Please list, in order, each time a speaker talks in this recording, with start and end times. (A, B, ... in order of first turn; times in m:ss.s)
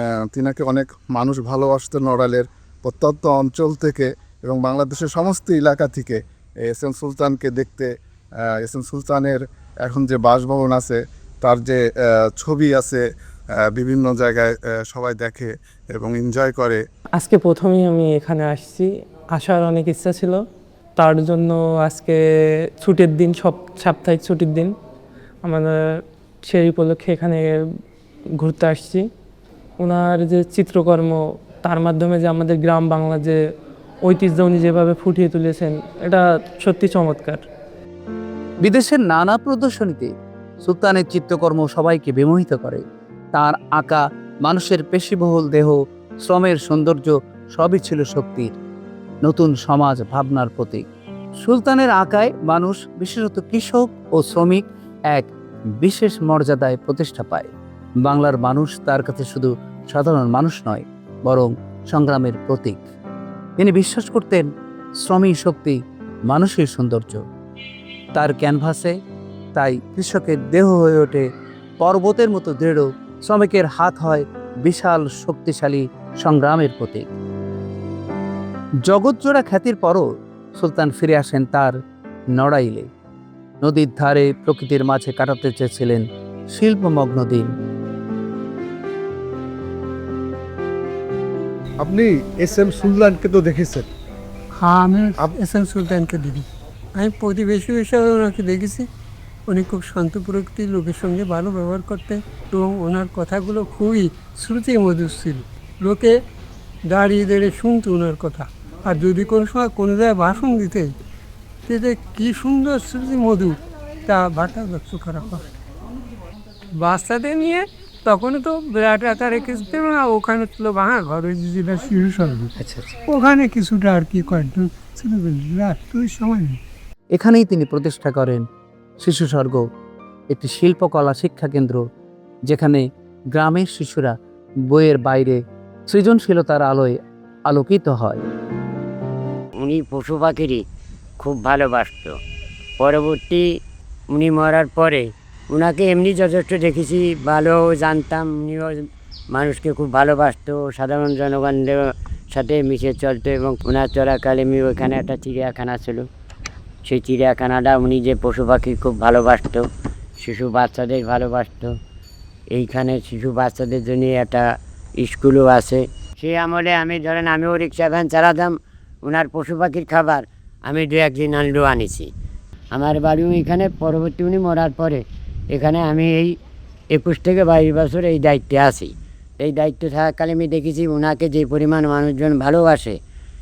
0:00.3-0:06.2 A
0:06.7-0:07.9 A
0:08.6-0:11.8 A
0:12.3-0:13.0 A
0:13.7-0:16.8 A
0:17.2-0:20.4 B
0:21.0-0:22.2 B
0:22.8-0:24.7 B
0:25.4-0:27.5 B
0:28.4-0:29.0 B
0:29.8-0:33.4 B
0:34.0-0:37.4 B
0:38.6-0:40.1 C
0:40.6-0:48.5 C
0:49.2-0:50.8 C
0:51.4-0:55.3 C
0:55.8-0:57.5 C
0:58.0-1:02.9 C
1:03.6-1:04.5 C
1:05.0-1:05.8 C
1:06.3-1:07.2 C
1:08.1-1:08.9 C
1:09.5-1:11.2 C
1:11.8-1:17.1 C
1:18.9-1:21.8 C
1:22.3-1:22.9 C
1:23.6-1:27.5 C
1:31.8-1:33.8 D
1:34.8-1:36.4 E
1:37.0-1:38.8 E
1:39.5-1:46.1 E
1:47.0-1:48.4 E
1:49.0-1:50.8 E
1:51.7-1:53.5 E
1:54.3-1:55.3 E
1:58.1-2:02.5 E
2:02.6-2:02.8 C
2:03.3-2:06.5 E
2:07.1-2:08.4 C
2:09.0-2:09.6 C
2:10.3-2:11.8 C
2:12.5-2:12.8 C
2:13.3-2:14.2 C
2:14.7-2:15.4 C
2:15.9-2:18.2 C
2:19.6-2:20.6 F
2:21.2-2:22.2 F
2:22.8-2:23.5 F
2:24.1-2:36.1 F
2:36.8-2:39.7 F
2:40.2-2:41.7 F
2:42.5-2:44.5 F
2:45.0-2:52.1 F
2:52.7-2:56.3 F
2:56.9-3:03.0 F